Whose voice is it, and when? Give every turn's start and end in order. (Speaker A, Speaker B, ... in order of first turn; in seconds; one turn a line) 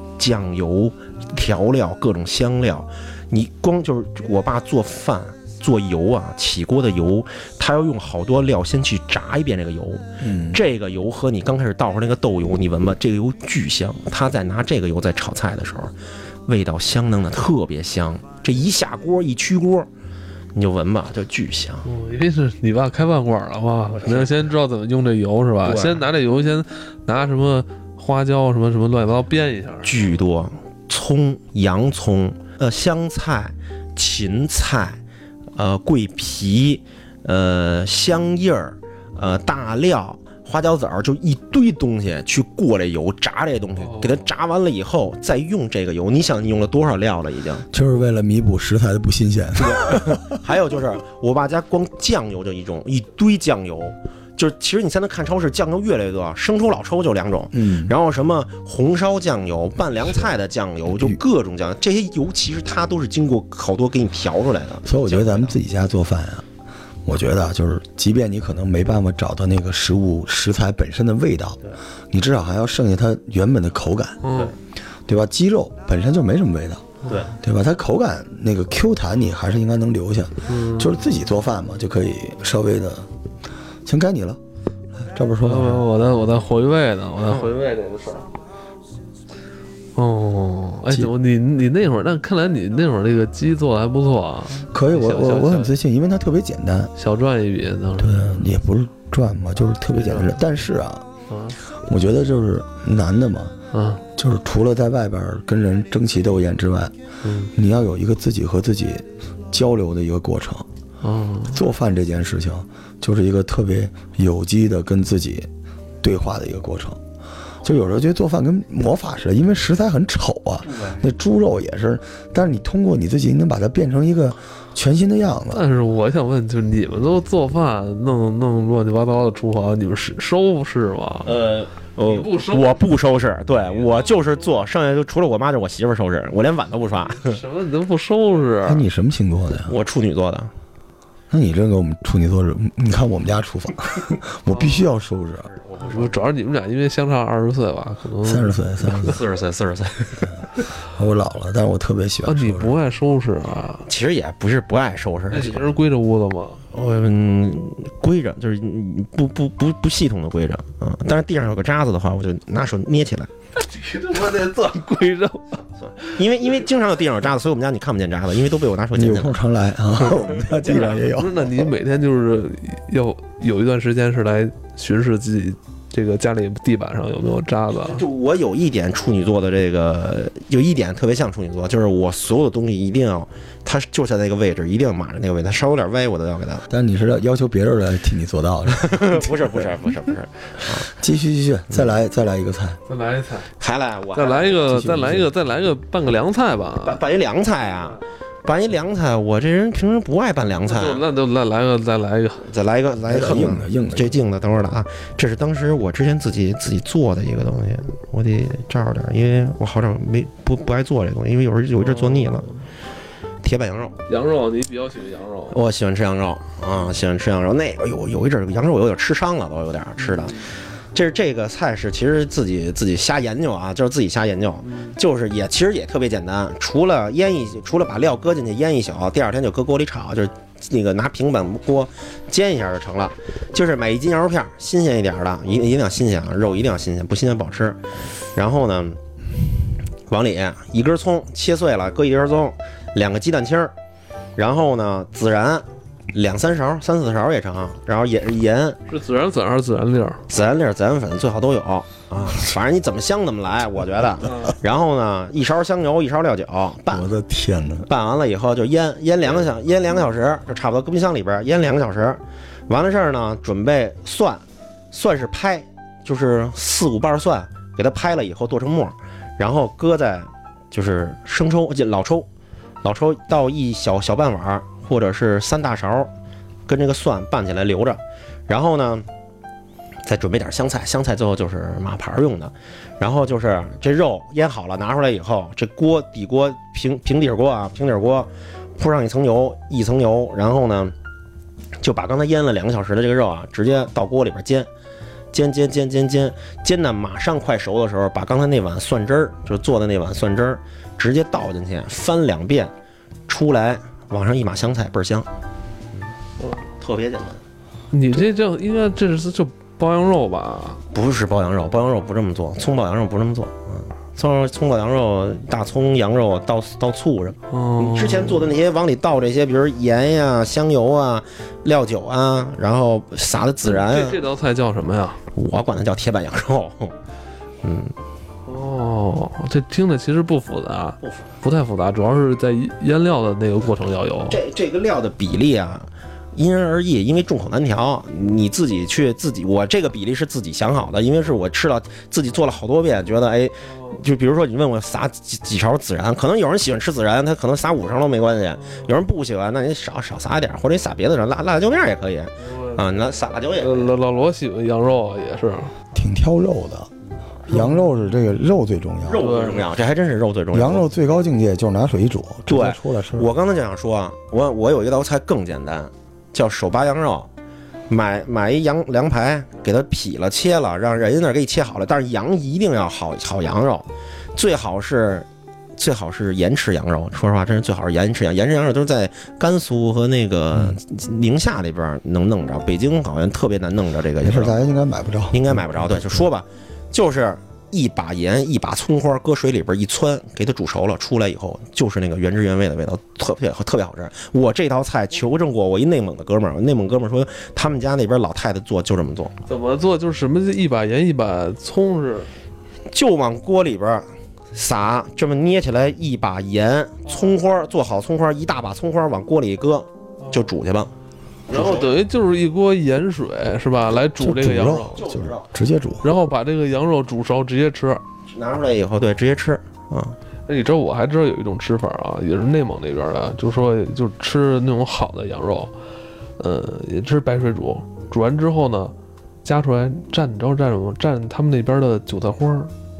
Speaker A: 0.2-15.9
Speaker B: 10.2-10.6
Speaker A: 16.5-19.9
Speaker A: 20.5-21.9
Speaker C: 21.8-30.0
Speaker A: 23.9-24.4
Speaker A: 25.6-26.0
Speaker A: 29.8-35.0
Speaker A: 35.5-47.6
Speaker C: 43.8-44.2
Speaker B: 47.7-50.4
Speaker A: 49.6-65.5
Speaker B: 57.5-57.9
Speaker B: 64.8-66.4
Speaker B: 67.0-74.2
Speaker C: 74.2-74.5
Speaker B: 75.0-83.1
Speaker A: 77.1-77.3
Speaker C: 80.5-81.0
Speaker B: 83.8-84.4
Speaker B: 85.0-85.8
Speaker C: 85.4-88.3
Speaker C: 90.0-95.7
Speaker B: 94.7-96.9
Speaker C: 97.0-98.4
Speaker B: 98.0-101.0
Speaker C: 101.3-101.5
Speaker B: 101.8-103.5
Speaker C: 103.7-104.0
Speaker B: 104.2-106.9
Speaker C: 107.2-107.5
Speaker B: 107.5-110.7
Speaker C: 111.0-111.6
Speaker B: 111.5-115.5
Speaker B: 116.0-117.0
Speaker B: 117.6-125.6
Speaker A: 120.7-121.0
Speaker C: 125.5-131.4
Speaker A: 131.2-137.4
Speaker C: 132.0-132.8
Speaker C: 137.1-138.8
Speaker B: 138.6-139.7
Speaker A: 139.7-140.5
Speaker B: 141.3-145.5
Speaker C: 144.5-144.8
Speaker A: 145.5-146.2
Speaker C: 145.8-149.1
Speaker B: 148.2-149.2
Speaker A: 148.8-150.3
Speaker B: 150.9-152.7
Speaker C: 152.2-153.9
Speaker A: 153.9-155.7
Speaker C: 155.3-156.6
Speaker A: 156.7-163.3
Speaker C: 163.6-166.2
Speaker A: 165.8-169.4
Speaker B: 168.9-171.7
Speaker A: 170.0-171.0
Speaker C: 171.1-178.0
Speaker A: 177.8-186.7
Speaker B: 186.7-189.7
Speaker A: 188.7-190.9
Speaker B: 190.9-192.8
Speaker C: 192.9-193.5
Speaker A: 193.6-194.9
Speaker C: 194.1-197.0
Speaker B: 194.7-195.3
Speaker A: 196.8-201.0
Speaker C: 200.6-202.4
Speaker A: 202.4-212.5
Speaker B: 203.1-204.2
Speaker C: 211.8-212.6
Speaker A: 213.4-214.0
Speaker C: 214.1-215.6
Speaker A: 215.5-237.8
Speaker C: 224.6-224.9
Speaker A: 238.3-239.0
Speaker A: 240.1-243.7
Speaker A: 244.3-248.8
Speaker C: 248.9-250.2
Speaker A: 250.3-257.1
Speaker B: 256.9-257.9
Speaker A: 257.9-272.3
Speaker A: 272.8-276.1
Speaker A: 276.7-279.1
Speaker A: 280.0-290.9
Speaker A: 291.8-294.7
Speaker A: 295.3-302.7
Speaker A: 303.3-305.3
Speaker A: 306.8-307.4
Speaker C: 307.9-310.8
Speaker A: 310.9-324.2
Speaker C: 317.5-318.5
Speaker C: 323.6-325.2
Speaker A: 325.3-326.9
Speaker A: 327.6-327.9
Speaker C: 328.4-334.4
Speaker A: 331.0-331.3
Speaker A: 334.3-353.9
Speaker C: 348.6-348.9
Speaker C: 352.4-352.8
Speaker C: 353.5-355.7
Speaker B: 355.9-356.9
Speaker B: 357.5-359.2
Speaker A: 359.0-360.8
Speaker C: 359.1-359.6
Speaker B: 360.5-363.3
Speaker A: 362.5-367.3
Speaker A: 367.9-384.6
Speaker B: 384.2-386.3
Speaker A: 385.3-399.3
Speaker C: 399.5-402.3
Speaker A: 402.9-410.9
Speaker A: 411.5-412.0
Speaker C: 411.5-415.0
Speaker B: 414.2-416.1
Speaker A: 414.9-415.5
Speaker C: 416.0-418.0
Speaker A: 418.3-420.2
Speaker C: 420.5-425.7
Speaker C: 426.4-432.7